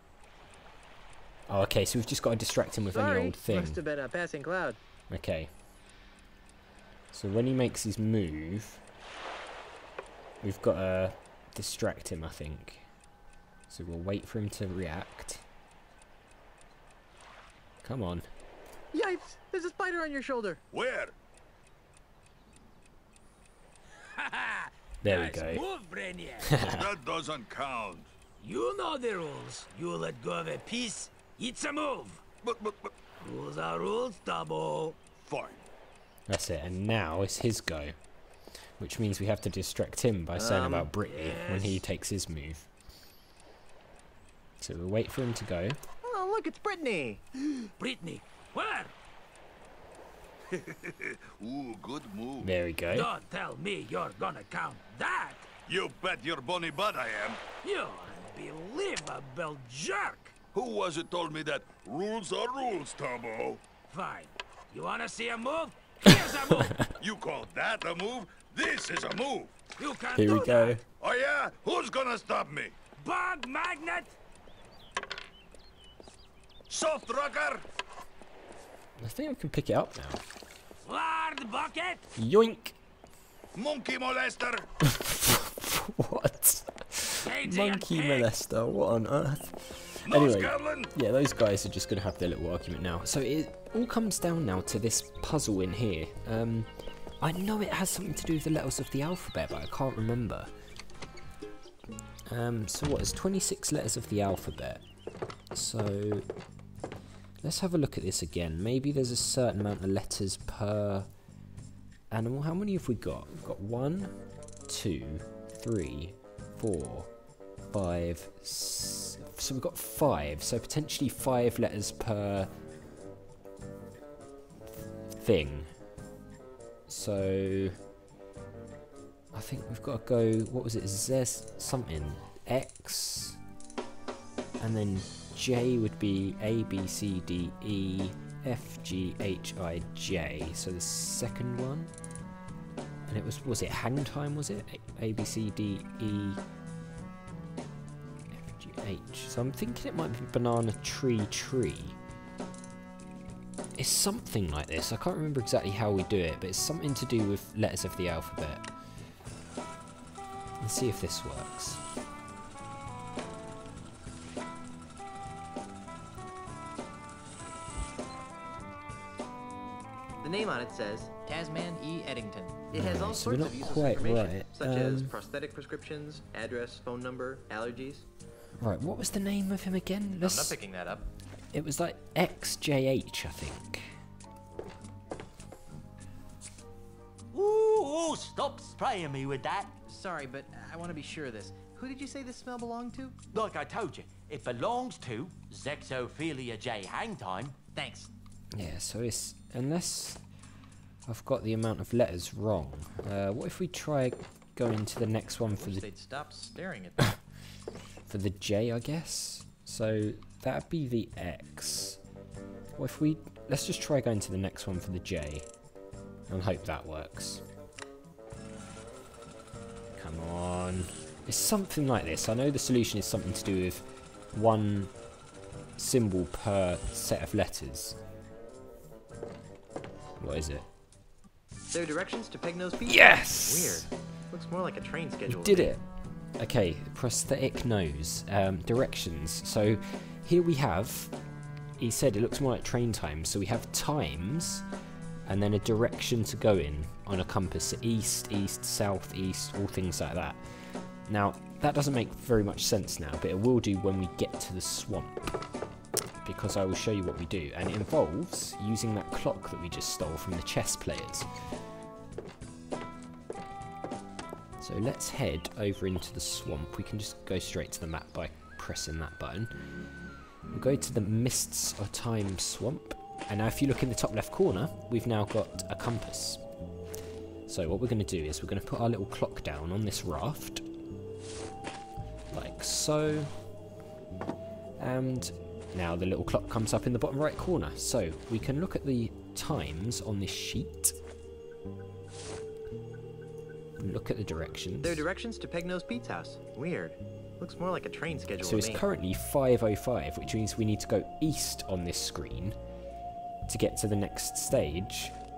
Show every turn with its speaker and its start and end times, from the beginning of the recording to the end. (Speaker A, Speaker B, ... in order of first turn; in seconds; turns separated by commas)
Speaker A: 1.5-3.8, Speaker B: 2.9-4.8, Speaker A: 5.1-5.5, Speaker A: 7.1-8.8, Speaker A: 10.4-12.9, Speaker A: 13.7-15.4, Speaker A: 17.8-18.3, Speaker B: 18.9-20.6, Speaker C: 20.7-21.1, Speaker D: 24.1-26.6, Speaker A: 25.0-25.6, Speaker A: 26.4-26.9, Speaker C: 26.6-28.1, Speaker D: 28.4-32.2, Speaker C: 32.4-32.9, Speaker D: 33.2-35.0, Speaker C: 35.1-35.7, Speaker A: 36.3-38.0, Speaker A: 38.8-42.7, Speaker B: 40.4-40.9, Speaker D: 41.0-41.9, Speaker A: 44.6-45.8, Speaker B: 46.0-47.2, Speaker D: 47.8-48.9, Speaker C: 50.5-52.5, Speaker A: 52.4-53.1, Speaker D: 52.9-55.5, Speaker C: 55.7-57.5, Speaker D: 57.6-60.4, Speaker C: 60.5-63.6, Speaker D: 63.9-66.8, Speaker A: 66.6-66.8, Speaker C: 67.0-69.6, Speaker D: 69.8-70.8, Speaker A: 70.2-70.8, Speaker C: 71.0-72.8, Speaker D: 73.0-74.2, Speaker C: 76.7-77.7, Speaker A: 79.0-80.2, Speaker D: 80.8-82.0, Speaker A: 82.2-82.8, Speaker C: 83.5-84.7, Speaker A: 84.8-100.5, Speaker D: 87.2-88.3, Speaker C: 90.1-90.9, Speaker A: 102.3-104.8, Speaker A: 105.5-106.3, Speaker A: 107.4-111.1, Speaker A: 112.1-114.2, Speaker A: 114.7-117.1, Speaker A: 117.7-122.5, Speaker A: 125.1-125.7, Speaker A: 126.9-127.8, Speaker A: 129.3-133.4, Speaker A: 134.6-141.9, Speaker A: 143.1-146.4, Speaker A: 148.3-152.0, Speaker A: 153.8-158.7, Speaker A: 160.6-161.8, Speaker B: 170.2-178.1, Speaker A: 172.7-175.1, Speaker A: 178.6-180.6, Speaker B: 180.2-181.1, Speaker A: 181.5-184.0, Speaker E: 187.3-189.7, Speaker B: 189.9-193.2, Speaker E: 193.3-197.6, Speaker B: 197.8-198.1, Speaker A: 198.5-200.2, Speaker A: 201.1-205.8, Speaker B: 205.5-207.1, Speaker A: 208.1-212.0, Speaker A: 212.8-215.5, Speaker A: 216.3-217.4, Speaker A: 220.0-224.9, Speaker A: 225.8-228.0, Speaker A: 230.2-230.7, Speaker B: 231.7-235.7, Speaker A: 232.8-233.9, Speaker A: 235.3-235.8, Speaker A: 236.4-241.1, Speaker A: 241.8-244.7, Speaker A: 245.3-255.4, Speaker A: 256.2-261.3, Speaker A: 264.6-269.5, Speaker A: 270.5-276.4, Speaker A: 277.5-280.6, Speaker A: 282.3-283.3, Speaker A: 284.8-291.0, Speaker A: 293.8-295.0, Speaker B: 294.8-298.8, Speaker A: 298.4-302.6, Speaker A: 303.5-305.1